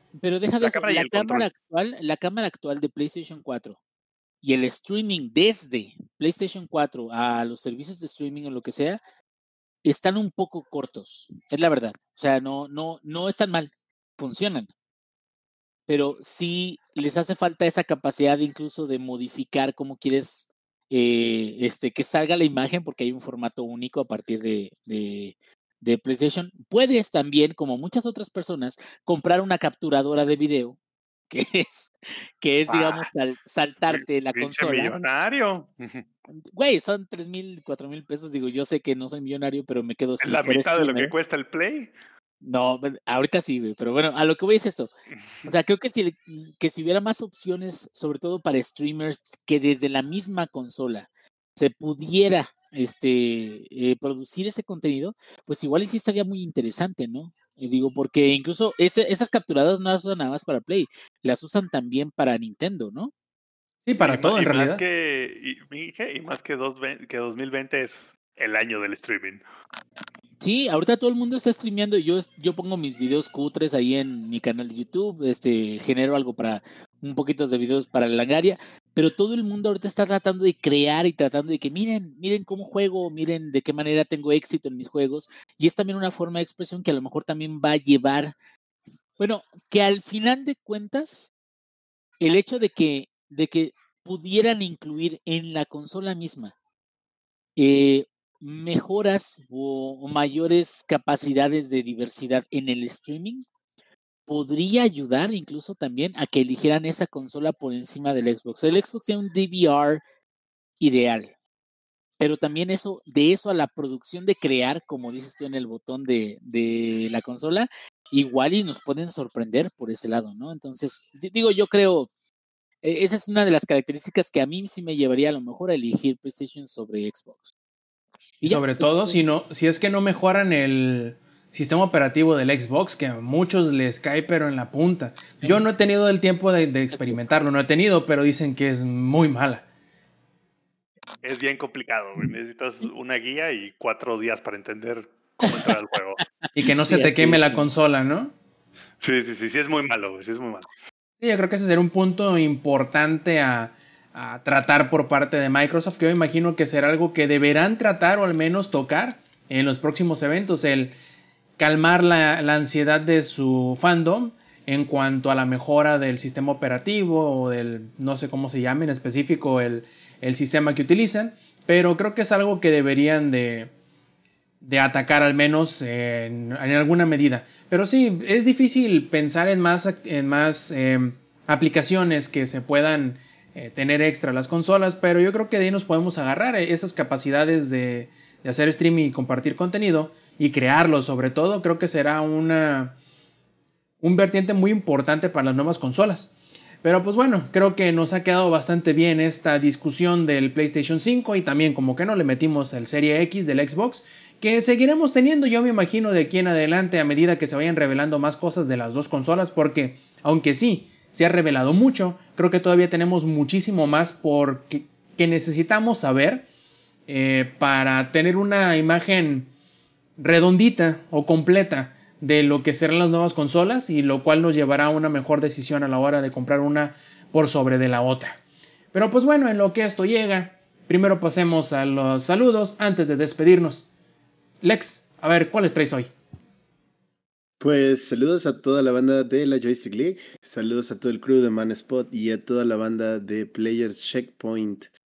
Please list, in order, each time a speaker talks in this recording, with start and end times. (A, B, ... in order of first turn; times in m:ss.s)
0:00.2-0:03.8 A
0:00.6-0:01.5 B
0:04.4-0:09.0 A
0:09.8-0:14.7 A
0:15.9-0:30.8 A
0:31.3-0:34.9 A
0:32.7-0:33.1 B
0:33.9-0:36.0 B
0:36.5-0:41.1 A
0:40.2-0:41.9 B
0:42.4-0:44.9 A
0:45.5-1:03.1 A
1:03.8-1:04.8 C
1:04.0-1:09.4 B
1:10.4-1:28.3 A
1:29.2-1:31.3 A
1:32.2-1:36.5 A
1:37.6-1:43.4 A
1:44.3-1:50.0 A
1:50.8-1:51.3 A
1:52.2-2:02.1 A
2:02.8-2:07.5 A
2:08.4-2:09.2 A
2:08.4-2:19.6 C
2:16.9-2:17.2 A
2:21.2-2:26.2 B
2:25.4-2:25.8 A
2:26.6-2:28.3 C
2:26.6-2:27.6 A
2:29.0-2:30.7 B
2:31.2-2:40.9 C
2:41.6-2:53.7 C
2:54.6-3:13.0 C
3:14.0-3:16.3 C
3:16.8-3:36.4 C
3:37.1-3:39.5 C
3:40.2-3:48.4 C
3:48.9-3:53.9 C
3:54.6-3:56.1 C
3:57.6-4:04.9 D